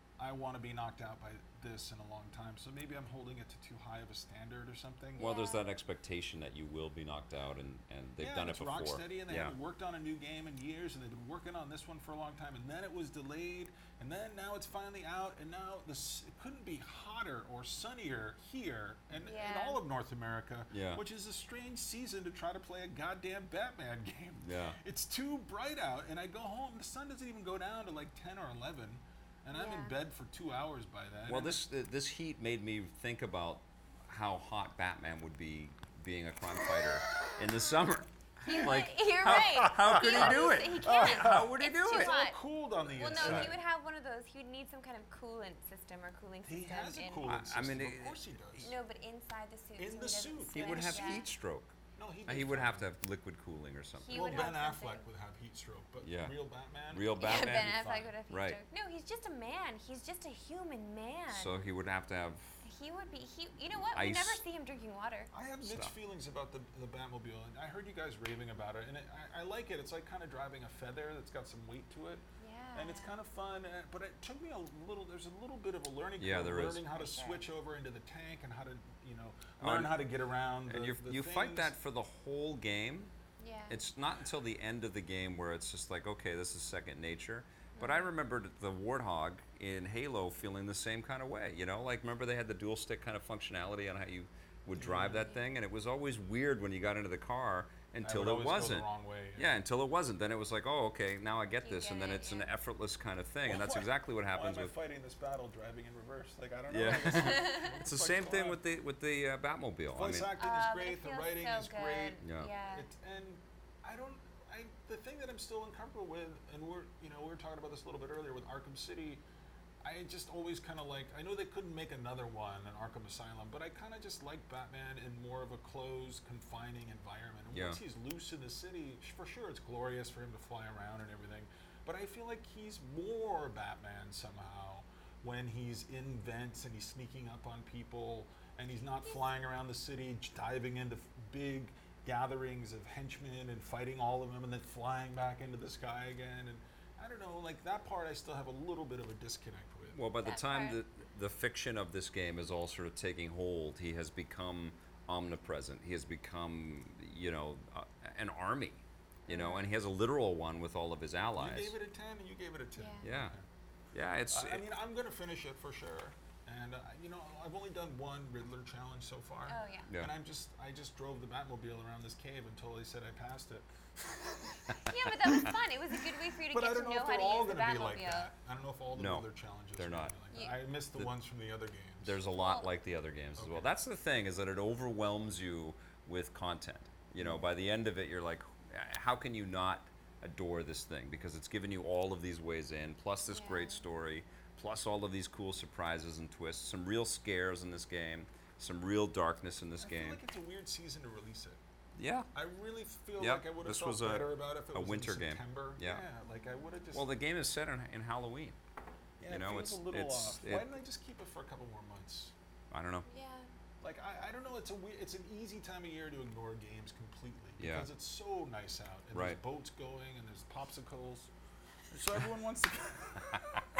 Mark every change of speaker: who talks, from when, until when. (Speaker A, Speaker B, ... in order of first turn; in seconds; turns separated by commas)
Speaker A: 0.2-5.3, Speaker B: 5.2-5.7, Speaker C: 5.2-9.6, Speaker A: 8.2-31.6, Speaker B: 19.1-19.8, Speaker C: 20.7-21.0, Speaker C: 24.4-24.8, Speaker B: 29.5-29.9, Speaker C: 31.3-42.2, Speaker B: 38.4-42.4, Speaker A: 39.6-43.6, Speaker B: 42.9-47.3, Speaker C: 43.1-43.5, Speaker A: 46.4-48.7, Speaker C: 47.2-48.6, Speaker B: 48.6-51.3, Speaker A: 49.8-51.3, Speaker C: 50.5-51.7, Speaker A: 52.0-52.9, Speaker C: 52.3-54.5, Speaker B: 54.0-55.0, Speaker A: 54.1-58.1, Speaker C: 56.0-56.3, Speaker C: 56.9-58.6, Speaker B: 57.2-61.5, Speaker C: 61.3-62.5, Speaker B: 62.6-65.3, Speaker C: 63.9-64.4, Speaker A: 65.3-72.2, Speaker C: 65.6-65.9, Speaker B: 72.4-73.2, Speaker A: 72.7-81.7, Speaker C: 76.2-76.8, Speaker B: 76.9-77.4, Speaker C: 79.6-80.0, Speaker C: 80.7-83.1, Speaker B: 83.4-83.8, Speaker C: 83.7-104.7, Speaker B: 87.8-88.1, Speaker A: 94.8-95.3, Speaker A: 98.0-99.5, Speaker B: 101.6-102.5, Speaker A: 103.5-108.6, Speaker C: 106.7-110.3, Speaker B: 107.5-107.8, Speaker A: 109.9-119.2, Speaker B: 110.4-112.9, Speaker C: 112.2-112.5, Speaker A: 119.8-150.0, Speaker C: 127.5-127.8, Speaker C: 149.9-161.7, Speaker B: 150.2-150.8, Speaker B: 159.3-159.7, Speaker A: 161.4-163.4, Speaker B: 162.8-163.1, Speaker C: 163.0-163.3, Speaker C: 163.9-164.6, Speaker A: 164.3-174.6, Speaker B: 169.5-169.9, Speaker B: 174.8-178.3, Speaker A: 176.5-182.2, Speaker C: 178.9-179.2, Speaker C: 179.8-180.1, Speaker C: 182.0-200.2, Speaker B: 182.3-182.7, Speaker A: 183.4-183.7, Speaker B: 193.3-193.8, Speaker A: 199.8-201.6, Speaker C: 202.0-202.3, Speaker A: 202.3-207.1, Speaker C: 203.2-206.1, Speaker B: 206.3-206.6, Speaker C: 206.9-208.6, Speaker A: 209.2-212.3, Speaker C: 209.3-210.7, Speaker C: 212.7-213.1, Speaker B: 213.1-213.5, Speaker A: 213.8-221.3, Speaker C: 217.6-217.9, Speaker C: 219.1-219.4, Speaker A: 221.9-223.5, Speaker C: 223.3-223.6